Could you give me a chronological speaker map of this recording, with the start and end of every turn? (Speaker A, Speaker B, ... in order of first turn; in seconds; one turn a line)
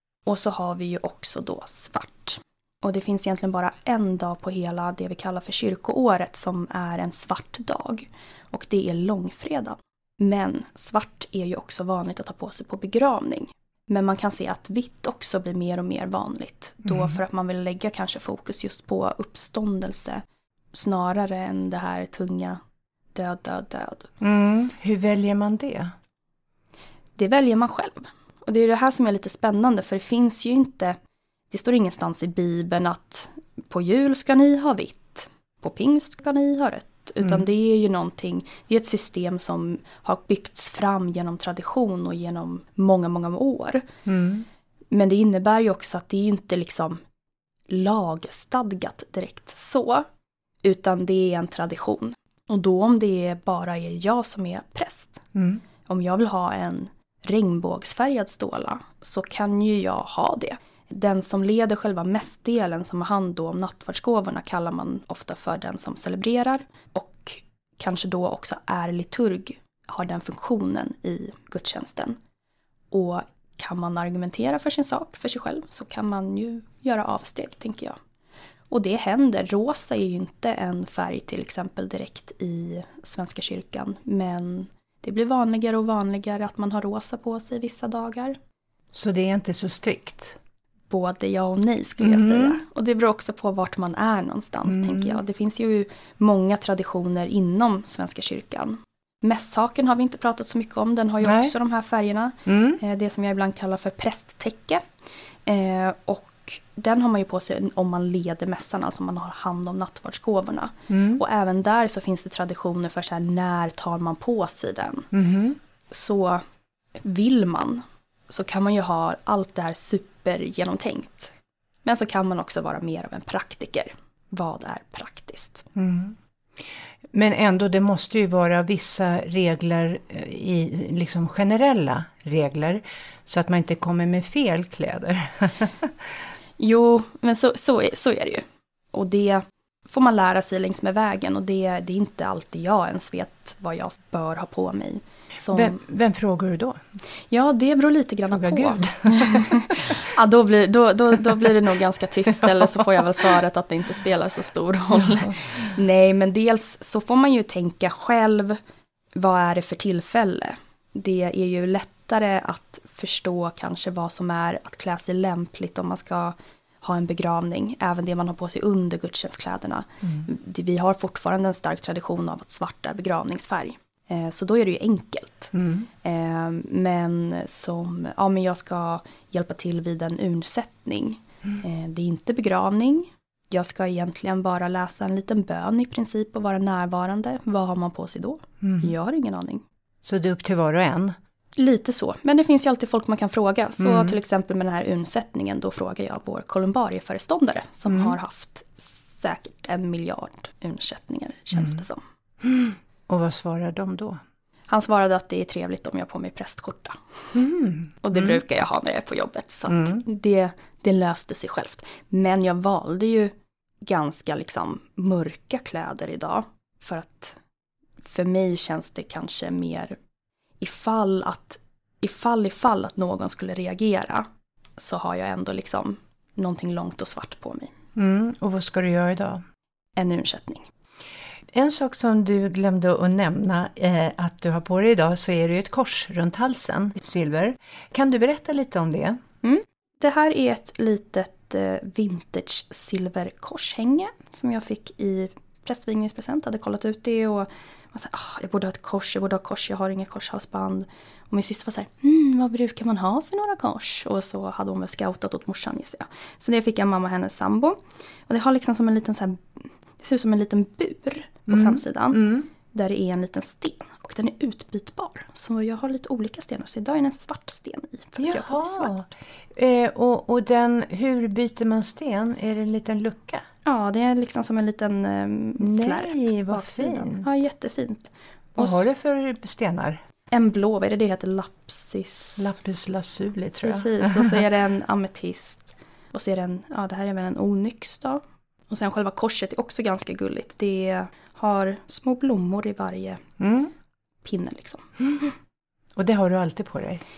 Speaker A: 0.3-22.6
Speaker A: 23.1-24.1
Speaker B: 24.2-25.9
Speaker A: 27.2-31.0
Speaker A: 31.5-43.9
Speaker B: 44.1-44.5
Speaker A: 44.9-47.0
Speaker A: 47.7-50.1
Speaker A: 50.6-55.3
Speaker B: 55.4-55.6
Speaker A: 55.9-72.2
Speaker A: 72.9-78.0
Speaker A: 78.7-88.4
Speaker B: 88.9-90.4
Speaker A: 90.9-104.8
Speaker B: 92.0-92.6
Speaker B: 94.7-95.2
Speaker B: 101.2-101.5
Speaker B: 102.5-102.8
Speaker A: 105.5-115.1
Speaker B: 110.9-111.2
Speaker B: 115.1-115.6
Speaker A: 115.9-116.4
Speaker A: 117.0-121.3
Speaker A: 121.8-125.7
Speaker B: 125.8-126.2
Speaker B: 127.1-136.3
Speaker A: 136.6-145.8
Speaker B: 145.5-146.8
Speaker A: 147.3-158.6
Speaker B: 148.3-150.1
Speaker B: 152.2-153.3
Speaker B: 155.0-155.3
Speaker A: 159.2-189.6
Speaker B: 175.5-175.9
Speaker B: 188.6-188.9
Speaker B: 190.0-191.2
Speaker A: 191.6-202.0
Speaker B: 193.8-194.2
Speaker B: 197.9-198.2
Speaker B: 202.4-204.2
Speaker A: 204.7-207.0
Speaker B: 207.3-208.4
Speaker A: 208.0-213.3
Speaker B: 209.7-210.0
Speaker A: 213.9-217.4
Speaker A: 218.0-220.0
Speaker A: 220.6-227.7
Speaker B: 228.0-229.4
Speaker A: 230.0-230.7
Speaker B: 231.5-239.2
Speaker A: 239.4-268.9
Speaker B: 261.5-262.5
Speaker B: 268.2-273.4
Speaker A: 273.6-278.9
Speaker B: 275.6-277.3
Speaker B: 278.6-280.0
Speaker A: 280.3-282.5
Speaker B: 282.4-284.4
Speaker A: 283.6-293.3
Speaker B: 293.4-293.7
Speaker A: 294.2-294.9
Speaker B: 296.0-297.0